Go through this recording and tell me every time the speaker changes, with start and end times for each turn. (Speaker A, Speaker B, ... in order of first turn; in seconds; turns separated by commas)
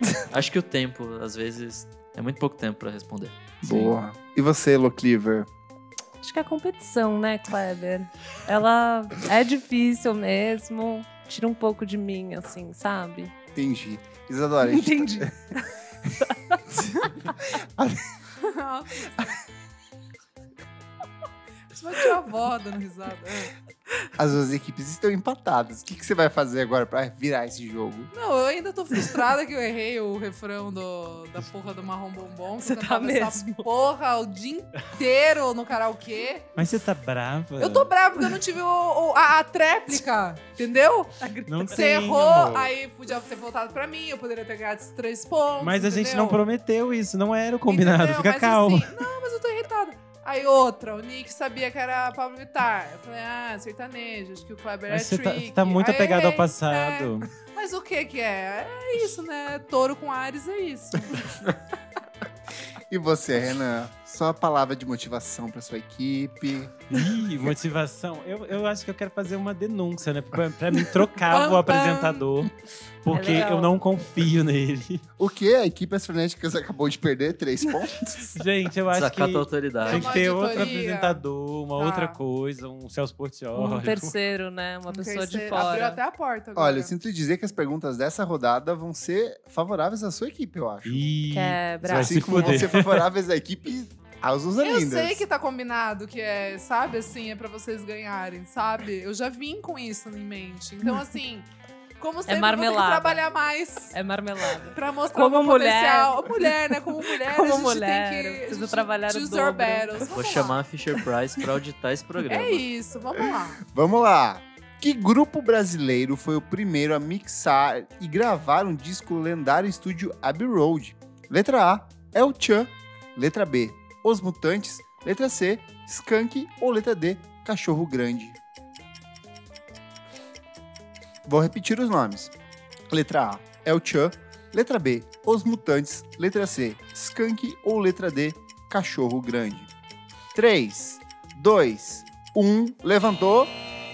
Speaker A: 0.3-3.5, Speaker B: 3.6-5.5, Speaker C: 3.6-3.9, Speaker D: 6.2-13.3, Speaker B: 13.5-15.3, Speaker D: 14.6-15.7, Speaker D: 16.3-16.6, Speaker B: 16.7-18.2, Speaker E: 18.4-19.4, Speaker E: 21.7-23.5, Speaker B: 24.2-28.1, Speaker E: 28.1-36.5, Speaker D: 32.6-33.7, Speaker C: 36.5-37.9, Speaker E: 37.6-41.2, Speaker D: 41.2-41.9, Speaker C: 41.5-42.7, Speaker E: 41.7-46.4, Speaker C: 45.6-49.0, Speaker E: 47.7-61.5, Speaker C: 54.9-57.3, Speaker B: 62.8-66.8, Speaker C: 66.9-72.5, Speaker E: 71.3-72.3, Speaker C: 73.0-75.0, Speaker D: 73.1-73.8, Speaker B: 75.2-78.3, Speaker C: 78.3-84.2, Speaker A: 78.9-80.4, Speaker E: 79.8-81.2, Speaker E: 81.8-82.2, Speaker D: 83.5-86.0, Speaker E: 84.9-86.9, Speaker B: 86.5-91.0, Speaker C: 90.8-93.1, Speaker D: 91.3-92.6, Speaker B: 91.9-95.2, Speaker E: 94.6-103.9, Speaker D: 102.3-103.2, Speaker D: 103.9-110.1, Speaker E: 104.7-110.6, Speaker A: 110.1-112.7, Speaker E: 112.3-113.6, Speaker B: 113.6-128.4, Speaker B: 131.2-132.3, Speaker B: 132.9-139.7, Speaker B: 140.3-143.6